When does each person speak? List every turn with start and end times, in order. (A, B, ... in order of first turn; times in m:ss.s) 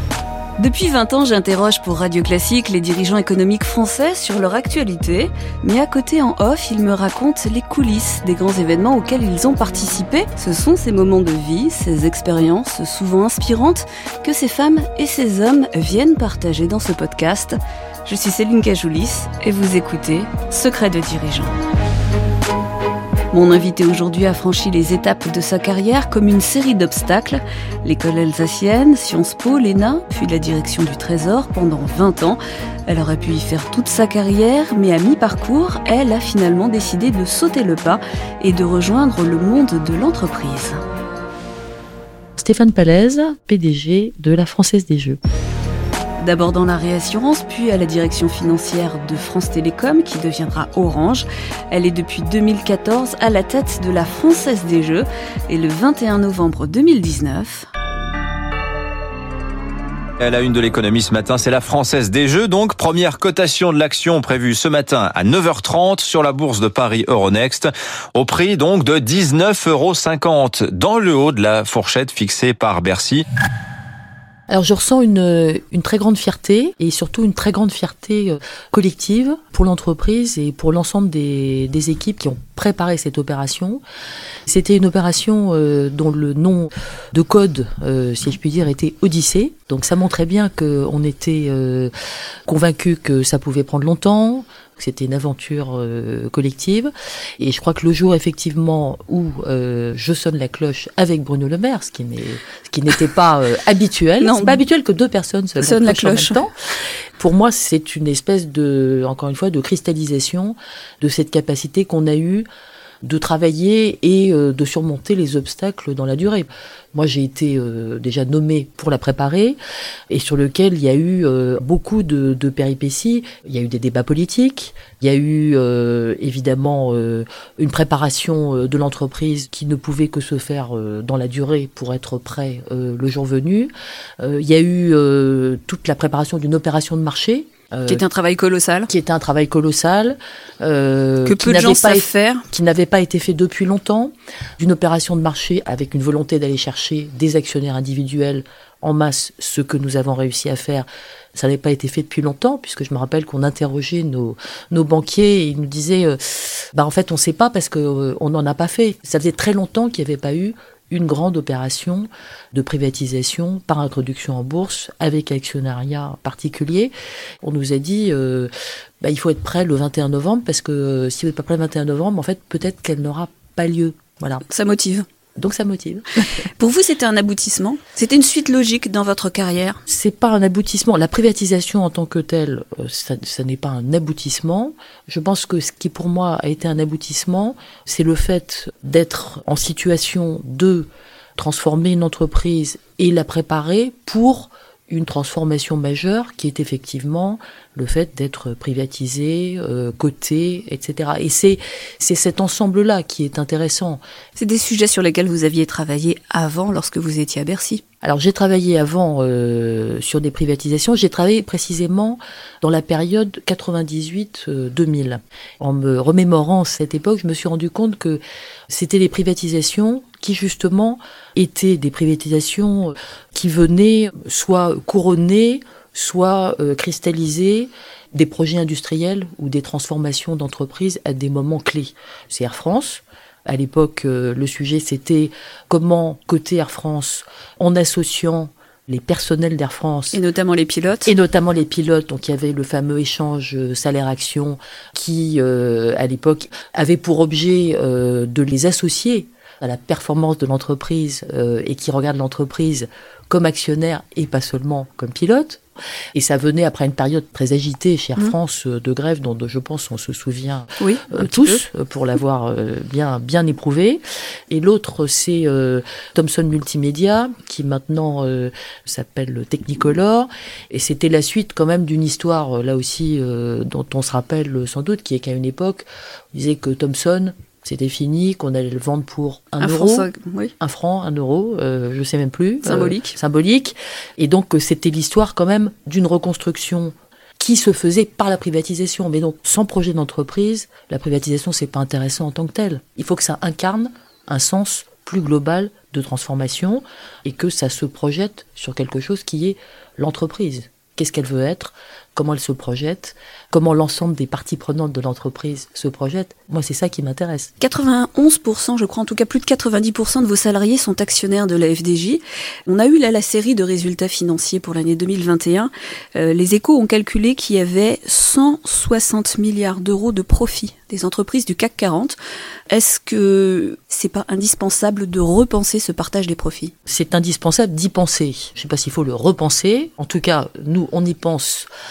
0:00.6-0:21.6 A
0:23.3-0:40.8 A
0:42.4-0:45.2 B
0:46.2-0:57.7 A
1:00.2-1:13.2 C
1:14.5-1:23.8 B
1:24.4-1:31.9 B
1:32.5-1:46.5 B
1:44.2-1:44.6 A
1:45.6-1:46.4 A
1:47.2-1:52.4 B
1:53.0-1:59.6 B
2:00.1-2:18.0 B
2:17.9-2:18.9 A
2:18.9-2:48.5 B
2:21.2-2:22.4 A
2:49.0-2:54.4 B
2:54.4-2:55.0 A
2:55.4-2:56.2 B
2:56.6-2:59.8 A
2:59.9-3:24.0 B
3:24.4-3:27.8 A
3:28.0-4:00.2 B
4:00.1-4:01.1 A
4:01.0-4:15.6 B
4:16.1-4:40.1 B
4:20.8-4:21.6 A
4:39.6-4:40.5 A
4:40.6-5:07.5 B
4:42.6-4:43.2 A
5:07.6-5:22.2 A
5:22.7-5:26.7 A
5:26.9-5:31.7 B